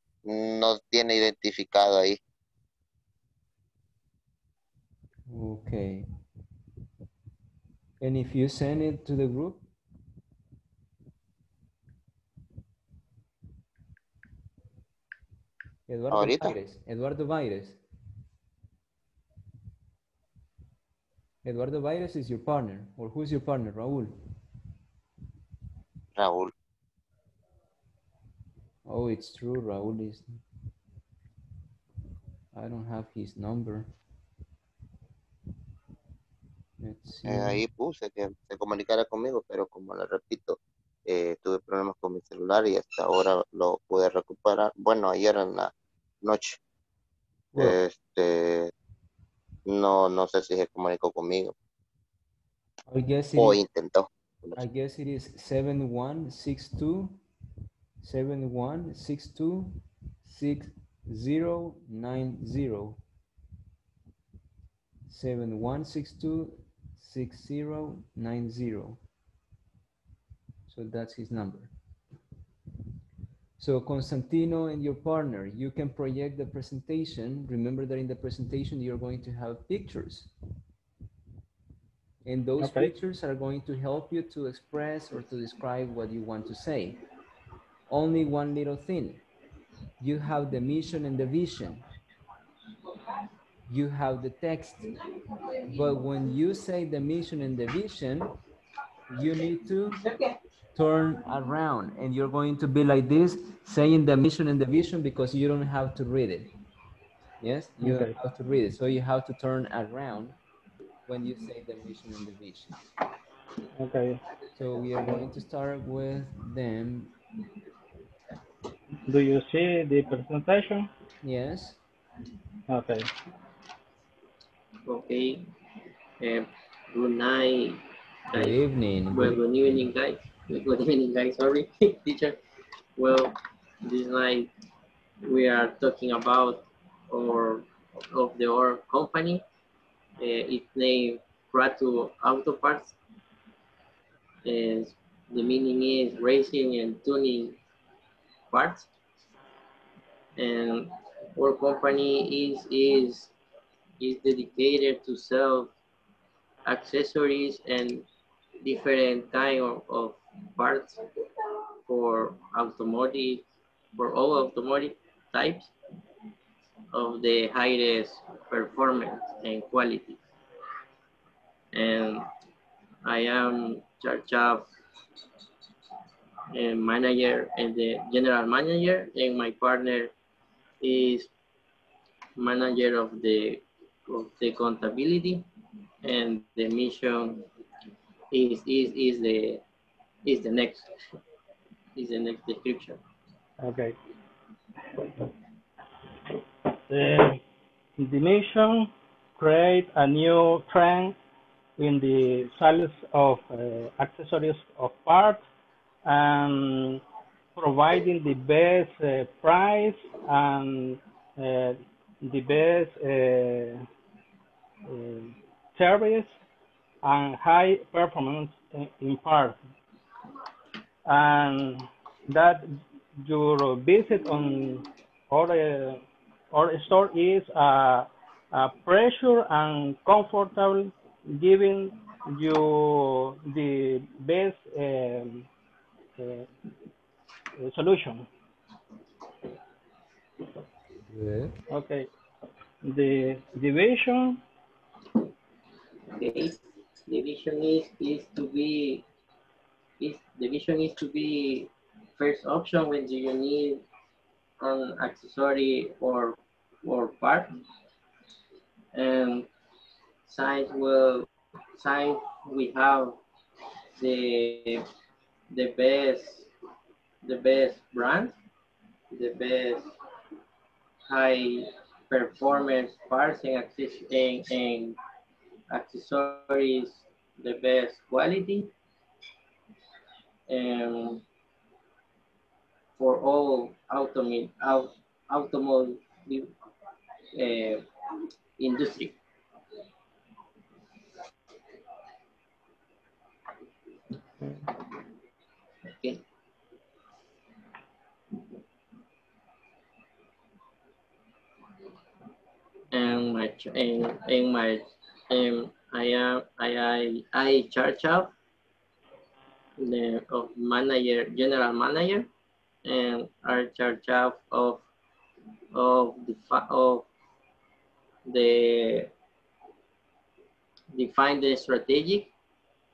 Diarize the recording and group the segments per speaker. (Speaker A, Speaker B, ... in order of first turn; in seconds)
Speaker A: 0.2-2.2, 16.1-16.5, 26.1-26.5, 37.3-45.7, 46.2-46.6, 47.6-48.7, 49.7-51.5, 53.4-54.5
Speaker B: 5.3-6.1, 8.0-9.7, 15.9-17.8, 21.4-24.1, 28.9-30.3, 32.5-33.9, 36.8-37.6, 52.9-53.6, 54.6-57.2, 58.0-63.0, 65.1-69.0, 70.7-71.7, 73.6-80.3, 82.2-87.0, 87.9-89.2, 90.0-91.8, 93.7-94.9, 95.6-98.3, 99.1-100.0, 100.8-106.5, 107.4-110.4, 111.1-112.9, 114.5-117.2, 121.2-121.8, 128.3-129.4, 241.1-241.6
Speaker C: 82.6-82.9, 107.8-108.1, 113.8-114.2, 119.1-120.9, 122.7-123.1, 193.6-194.0, 196.9-197.4, 198.0-201.2, 201.8-205.4, 206.1-207.0, 207.6-213.9, 214.9-216.3, 217.0-219.6, 221.1-235.5, 236.2-236.5, 237.6-238.3, 241.7-242.1, 242.8-244.4
Speaker D: 124.9-125.5, 126.2-132.4, 133.0-134.5, 135.2-139.4, 140.2-143.0, 144.4-147.6, 148.5-148.9, 150.4-153.3, 154.0-155.7, 156.7-158.1, 158.6-161.2, 161.9-163.4, 164.0-165.7, 166.9-170.2, 171.7-172.3, 173.0-174.7, 176.5-180.1, 180.8-181.3, 182.4-185.5, 186.0-187.5, 188.3-189.6, 190.2-190.9, 192.0-193.0, 246.2-249.1, 250.0-253.8, 254.6-257.5, 258.9-259.5, 260.3-263.2, 264.0-264.9, 265.5-266.5, 267.2-268.4, 269.1-269.9, 271.1-275.0, 275.7-278.7, 280.5-281.2, 283.0-286.5, 287.3-287.9, 288.6-289.2, 295.9-296.2, 302.9-308.3, 309.8-312.3, 312.9-314.9, 315.7-317.1, 318.3-319.1, 320.9-322.3